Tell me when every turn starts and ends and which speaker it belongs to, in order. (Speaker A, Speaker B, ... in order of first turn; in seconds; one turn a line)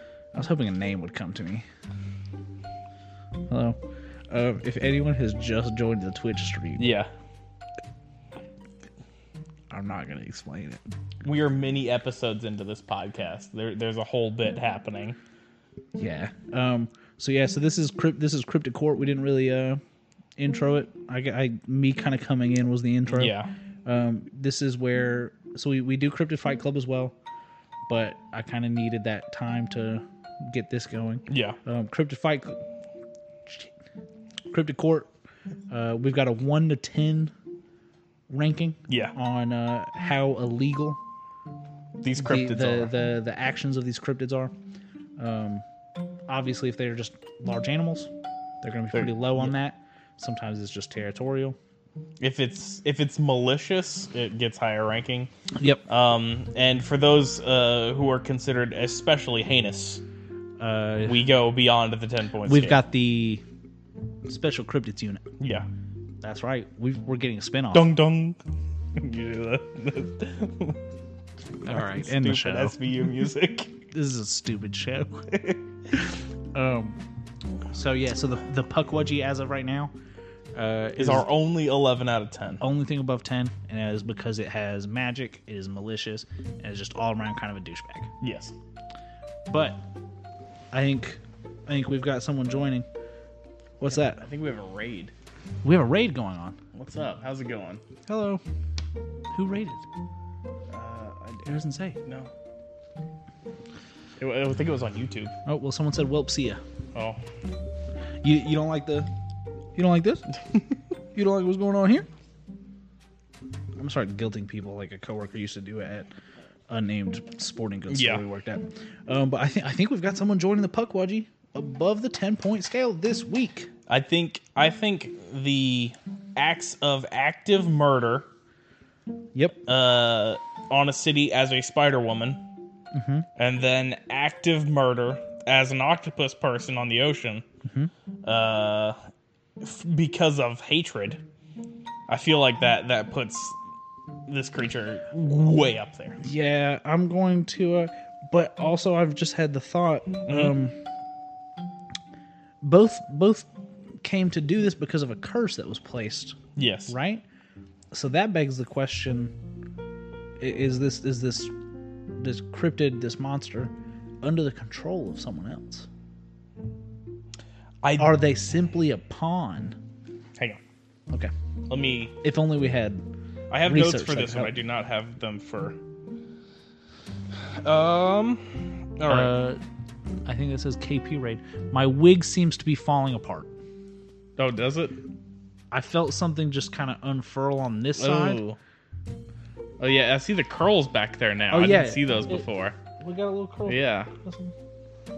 Speaker A: 0.3-1.6
Speaker A: 3.5-3.8
Speaker A: 4.3-6.9
Speaker B: 6.8-7.1
Speaker A: 9.7-10.8
Speaker B: 11.2-15.2
Speaker A: 15.9-19.8
Speaker A: 20.4-27.1
Speaker B: 23.1-23.5
Speaker A: 27.9-32.6
Speaker B: 31.3-31.6
Speaker A: 34.5-35.1
Speaker A: 35.7-37.3
Speaker A: 38.3-41.0
Speaker B: 38.9-39.1
Speaker B: 42.0-42.9
Speaker A: 42.1-44.5
Speaker A: 45.2-45.6
Speaker A: 46.3-48.1
Speaker A: 48.6-51.6
Speaker B: 48.9-49.5
Speaker B: 52.2-55.3
Speaker A: 55.5-55.8
Speaker B: 55.9-60.0
Speaker A: 60.6-61.3
Speaker B: 61.0-62.8
Speaker A: 62.4-63.4
Speaker A: 64.2-65.2
Speaker B: 65.4-65.7
Speaker A: 66.2-67.9
Speaker B: 67.7-68.4
Speaker B: 69.0-70.8
Speaker A: 71.6-72.8
Speaker B: 71.6-73.7
Speaker A: 73.9-77.0
Speaker A: 77.7-79.9
Speaker A: 80.5-81.3
Speaker B: 81.0-82.6
Speaker A: 82.6-88.1
Speaker B: 88.2-88.5
Speaker A: 89.5-89.8
Speaker A: 90.7-92.8
Speaker A: 93.8-94.2
Speaker B: 93.9-95.1
Speaker A: 95.6-96.6
Speaker B: 96.7-97.8
Speaker A: 98.1-98.4
Speaker A: 99.3-99.8
Speaker B: 100.7-102.3
Speaker A: 101.4-102.0
Speaker B: 104.2-105.3
Speaker A: 105.5-106.6
Speaker B: 106.9-107.2
Speaker A: 108.2-109.1
Speaker A: 109.7-110.3
Speaker A: 111.1-112.1
Speaker A: 113.8-116.1
Speaker A: 116.7-123.7
Speaker B: 117.9-118.2
Speaker B: 123.9-128.3
Speaker A: 129.3-129.6
Speaker B: 129.7-132.4
Speaker A: 132.9-133.3
Speaker B: 133.3-137.4
Speaker A: 137.6-137.9
Speaker B: 138.2-139.0
Speaker B: 139.6-141.2
Speaker B: 142.1-143.6
Speaker B: 144.3-146.2
Speaker A: 146.2-150.8
Speaker B: 150.2-150.5
Speaker A: 152.6-153.5
Speaker A: 154.0-157.2
Speaker B: 156.6-156.9
Speaker A: 157.9-159.3
Speaker A: 160.4-161.5
Speaker A: 162.2-165.9
Speaker B: 167.8-168.2
Speaker A: 168.0-169.8
Speaker B: 171.7-172.1
Speaker A: 172.2-173.0
Speaker B: 173.5-175.8
Speaker A: 173.6-174.5
Speaker B: 177.6-179.3
Speaker A: 179.1-179.6
Speaker A: 180.2-183.5
Speaker B: 184.4-185.0
Speaker A: 185.7-188.4
Speaker B: 187.9-188.6
Speaker B: 189.8-192.8
Speaker A: 191.5-192.5
Speaker A: 193.0-194.5
Speaker B: 193.7-194.1